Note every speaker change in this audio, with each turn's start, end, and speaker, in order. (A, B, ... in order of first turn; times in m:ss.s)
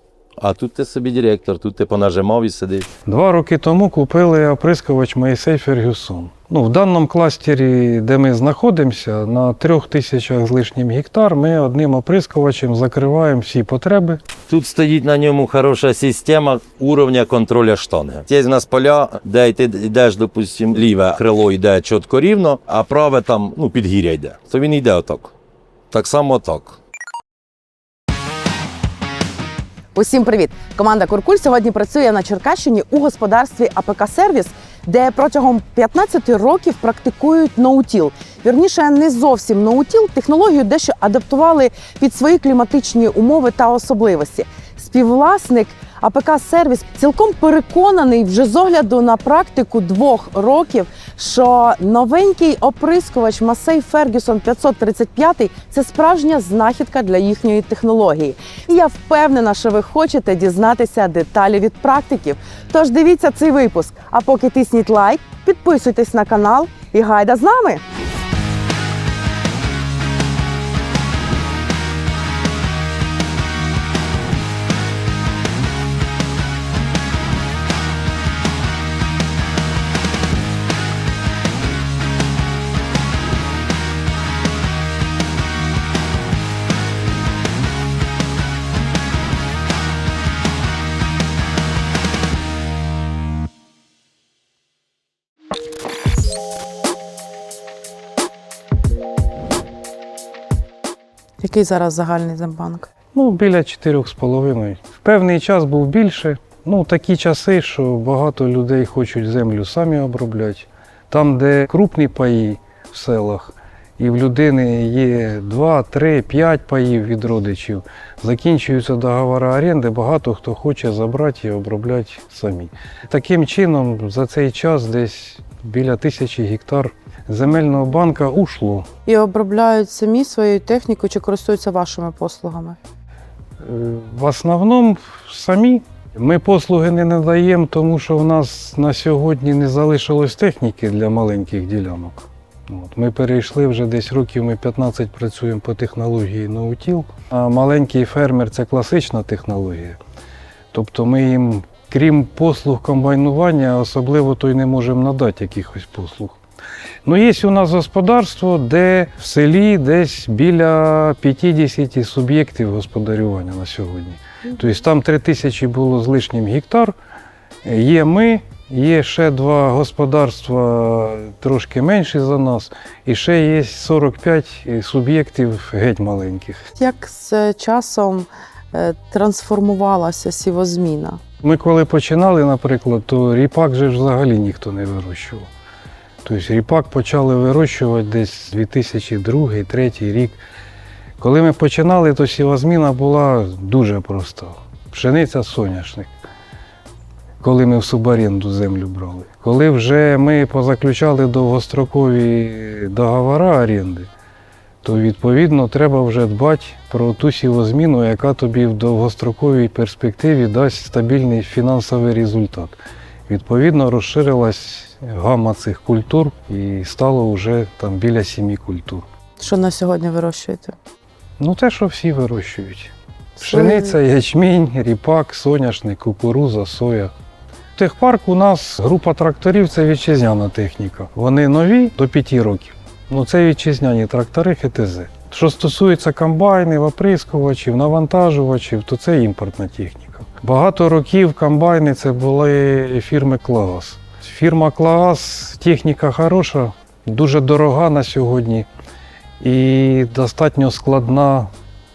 0:00.4-0:02.9 A
0:03.0-0:14.2 B
0:14.5-0:25.3 A
0:25.9-0:26.8 A
0:29.9-1:07.8 C
1:41.4-1:42.9 C
1:43.1-2:08.8 B
2:09.0-2:12.8 C
2:13.6-2:30.0 B
2:30.7-2:36.4 B
2:37.0-2:46.9 B
2:47.6-2:56.6 B
2:56.8-3:01.2 C
3:01.4-3:05.5 B
3:06.2-3:10.4 B
3:11.2-3:16.1 B
3:17.4-3:24.1 B
3:24.8-3:32.8 B
3:33.3-3:39.0 B
3:39.4-3:40.8 C
3:41.4-3:47.1 B
3:43.4-3:44.0 C
3:47.8-4:08.7 B
4:09.4-4:11.5 B